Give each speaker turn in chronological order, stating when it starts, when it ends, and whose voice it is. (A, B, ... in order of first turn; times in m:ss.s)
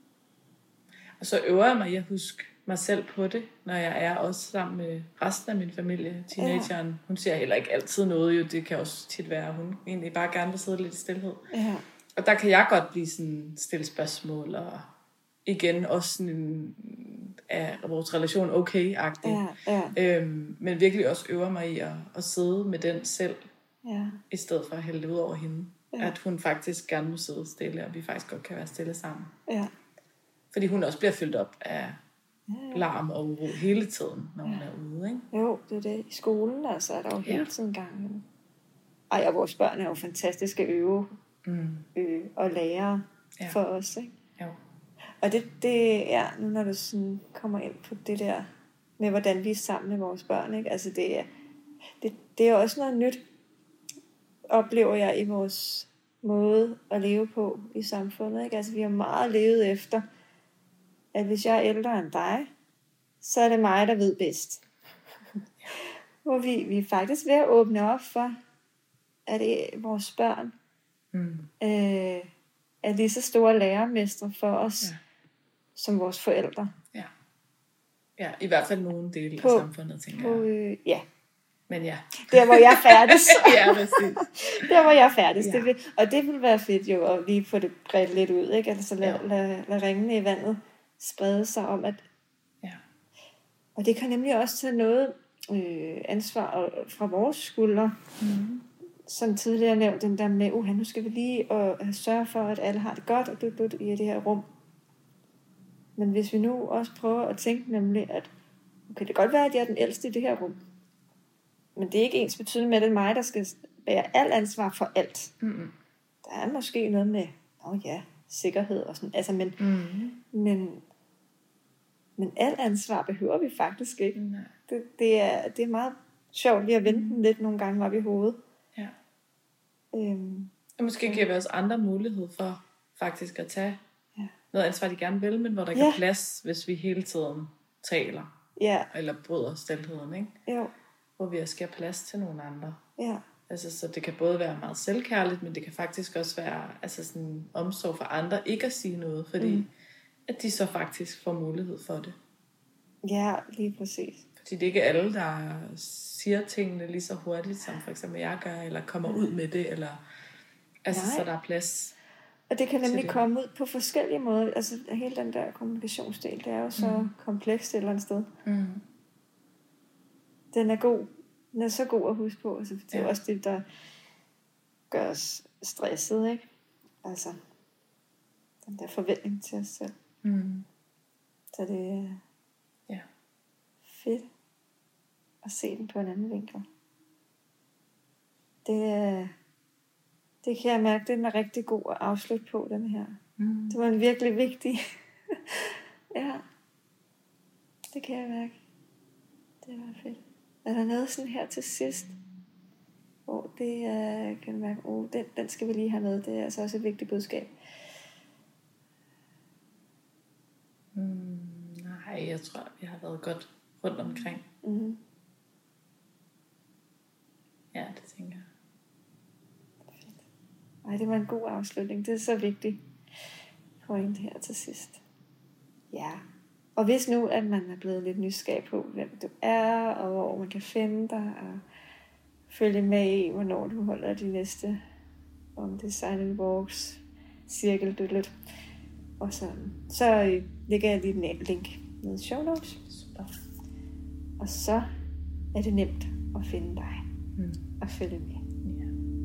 0:01.2-0:11.5 A
0:06.4-0:06.7 B
0:11.5-0:11.8 B
0:12.2-0:14.9 A
0:15.4-0:23.4 A
0:19.2-0:20.0 B
0:23.8-0:24.2 B
0:24.3-0:29.3 A
0:29.5-0:29.7 B
0:30.5-0:32.0 A
0:32.5-0:32.9 B
0:32.7-0:35.3 A
0:35.3-0:38.2 B
0:39.1-0:41.2 B
0:41.4-0:41.9 A
0:42.0-0:44.2 B
0:45.2-0:48.5 B
0:49.0-0:51.3 B
0:52.0-0:53.2 B
0:54.5-1:00.0 B
1:01.1-1:02.5 B
1:03.2-1:04.6 B
1:05.8-1:08.4 B
1:09.3-1:10.6 B
1:11.1-1:11.5 A
1:11.6-1:12.3 B
1:12.8-1:14.9 B
1:15.8-1:16.7 B
1:18.2-1:20.5 A
1:19.4-1:21.0 B
1:21.7-1:25.7 A
1:22.2-1:32.0 B
1:33.8-1:38.0 B
1:38.2-1:38.7 A
1:39.1-1:44.5 B
1:46.0-1:48.3 B
1:48.9-1:50.6 B
1:51.8-1:55.3 B
1:55.4-1:55.8 A
1:56.2-1:59.6 B
1:59.6-2:00.2 A
2:00.3-2:00.8 B
2:02.2-2:08.4 B
2:04.2-2:04.5 A
2:06.9-2:07.2 A
2:09.9-2:10.5 B
2:10.8-2:13.8 A
2:14.5-2:18.3 A
2:15.7-2:16.0 B
2:18.6-2:18.9 B
2:18.9-2:20.4 A
2:20.5-2:20.7 B
2:21.2-2:22.8 A
2:23.0-2:23.2 B
2:23.5-2:29.7 A
2:29.4-2:29.7 B
2:30.3-2:32.2 A
2:33.0-2:34.2 B
2:34.4-2:40.0 A
2:40.8-2:42.0 A
2:40.9-2:41.3 B
2:42.5-2:48.3 B
2:42.8-2:43.2 A
2:46.8-2:47.1 A
2:48.4-2:48.8 A
2:50.5-2:53.6 B
2:54.9-2:56.4 B
2:57.0-2:57.4 B
2:58.6-2:59.9 B
3:00.2-3:00.7 A
3:01.5-3:02.2 B
3:03.9-3:04.3 B
3:05.4-3:06.6 B
3:08.6-3:09.3 B
3:10.4-3:16.4 B
3:13.4-3:13.8 A
3:17.9-3:18.6 B
3:19.6-3:22.2 B
3:23.3-3:27.5 B
3:30.9-3:34.4 A
3:34.6-3:35.0 B
3:37.7-3:38.5 A
3:39.9-3:40.2 B
3:40.8-3:42.8 B
3:43.8-3:45.0 B
3:45.9-3:46.2 B
3:46.8-3:51.6 B
3:52.5-3:54.8 B
3:55.6-3:58.3 B
3:59.2-4:02.8 B
4:02.9-4:03.3 A
4:04.4-4:04.9 B
4:05.5-4:07.0 B
4:07.4-4:07.7 A
4:07.8-4:08.4 B
4:08.6-4:08.9 A